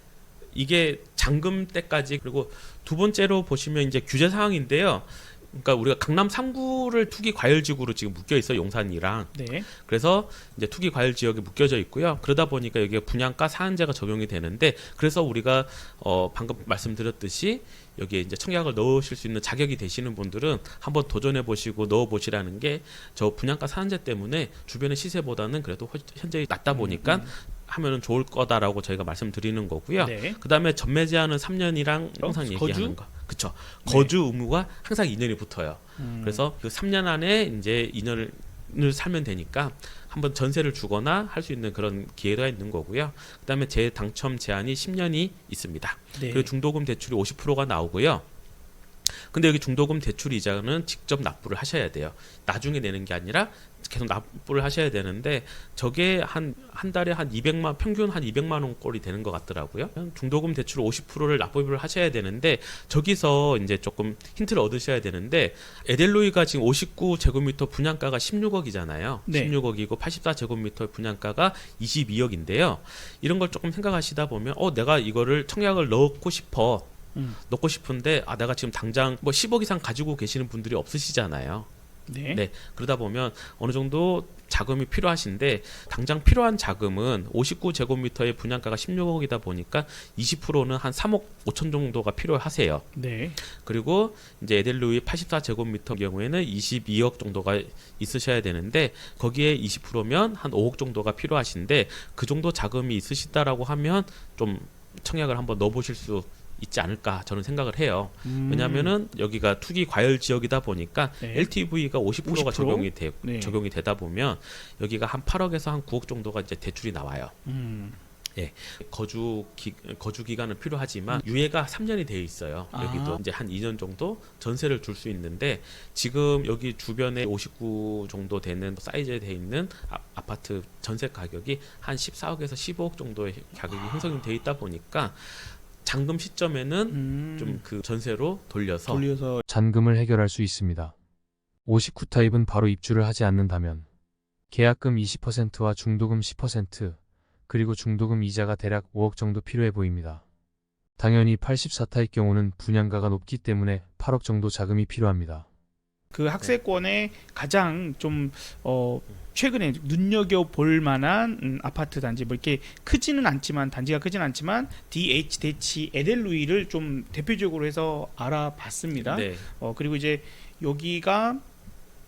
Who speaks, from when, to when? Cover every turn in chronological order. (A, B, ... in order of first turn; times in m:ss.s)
0:00.5-0:48.3 A
0:09.3-0:09.7 B
0:26.7-0:27.3 B
0:30.0-0:30.4 B
0:32.2-0:33.0 B
0:33.9-0:34.1 B
0:36.0-0:36.4 B
0:46.2-0:46.5 B
0:49.0-1:16.9 A
1:09.3-1:09.6 B
1:17.4-1:21.7 A
1:22.1-1:22.4 B
1:22.3-1:32.9 A
1:32.9-1:33.4 B
1:33.4-1:57.3 A
1:48.2-1:48.9 B
1:51.2-1:51.5 B
1:52.2-1:53.6 B
1:57.5-1:58.0 B
1:58.3-2:19.0 A
2:02.7-2:03.2 B
2:16.9-2:17.6 B
2:18.9-2:19.4 B
2:19.5-2:21.0 C
2:21.7-2:23.9 C
2:24.5-2:27.0 C
2:27.5-2:30.2 C
2:31.0-2:35.5 C
2:36.1-2:51.4 B
2:49.0-2:49.5 A